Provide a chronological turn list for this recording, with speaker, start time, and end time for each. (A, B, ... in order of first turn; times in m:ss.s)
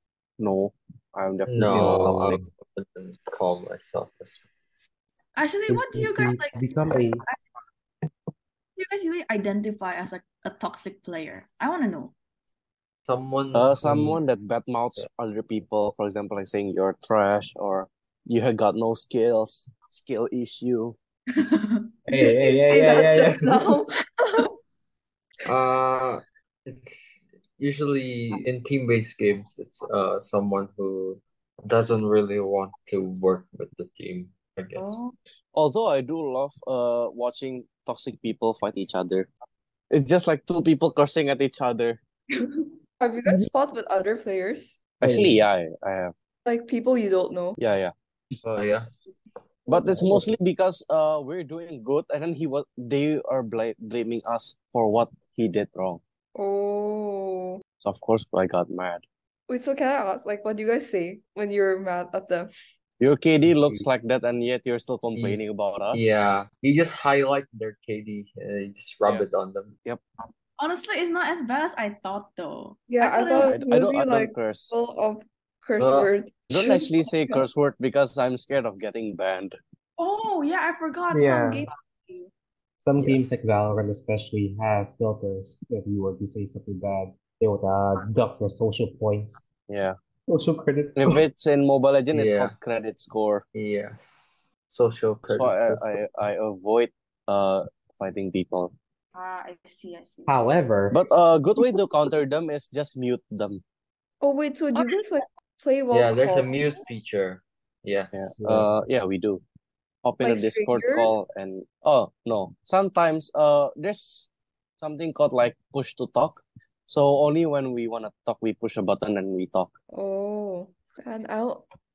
0:00.4-0:02.4 A
0:01.5-0:04.4 B
0:01.6-0:02.4 C
0:05.4-0:06.6 D
0:05.7-0:07.2 C
0:08.8-0:12.1 D
0:13.1-0:13.8 B
0:13.5-0:21.0 A
0:13.8-0:14.2 C
0:21.4-0:24.5 E
0:22.1-0:23.8 C
0:25.4-0:35.0 B
0:34.7-0:35.1 D
0:35.5-0:39.3 A
0:39.9-0:42.0 A
0:42.4-0:44.8 E
0:43.2-0:43.5 C
0:45.0-0:46.1 A
0:45.0-0:45.4 C
0:46.4-0:47.6 E
0:47.6-0:47.9 A
0:48.4-0:48.9 B
0:49.7-0:56.0 A
0:49.8-0:50.3 C
0:56.4-0:57.6 E
0:57.8-0:59.0 A
0:59.5-1:02.5 E
1:03.0-1:06.1 A
1:03.5-1:03.8 B
1:05.9-1:09.7 B
1:10.6-1:13.6 D
1:12.9-1:17.4 E
1:13.4-1:14.8 A
1:15.8-1:16.1 B
1:16.5-1:19.6 A
1:20.0-1:22.3 D
1:21.1-1:21.6 C
1:22.8-1:29.4 C
1:23.0-1:23.4 B
1:29.7-1:30.0 A
1:30.3-1:31.2 C
1:31.0-1:33.4 A
1:32.1-1:32.5 B
1:33.5-1:36.0 B
1:35.2-1:38.7 A
1:39.1-1:40.3 D
1:40.3-1:41.0 C
1:40.9-1:43.6 A
1:44.2-1:46.6 E
1:45.9-1:48.3 B
1:48.1-1:49.4 A
1:48.4-1:48.7 C
1:50.0-1:54.3 A
1:50.2-1:51.2 E
1:54.8-1:59.7 A
1:59.9-2:01.6 E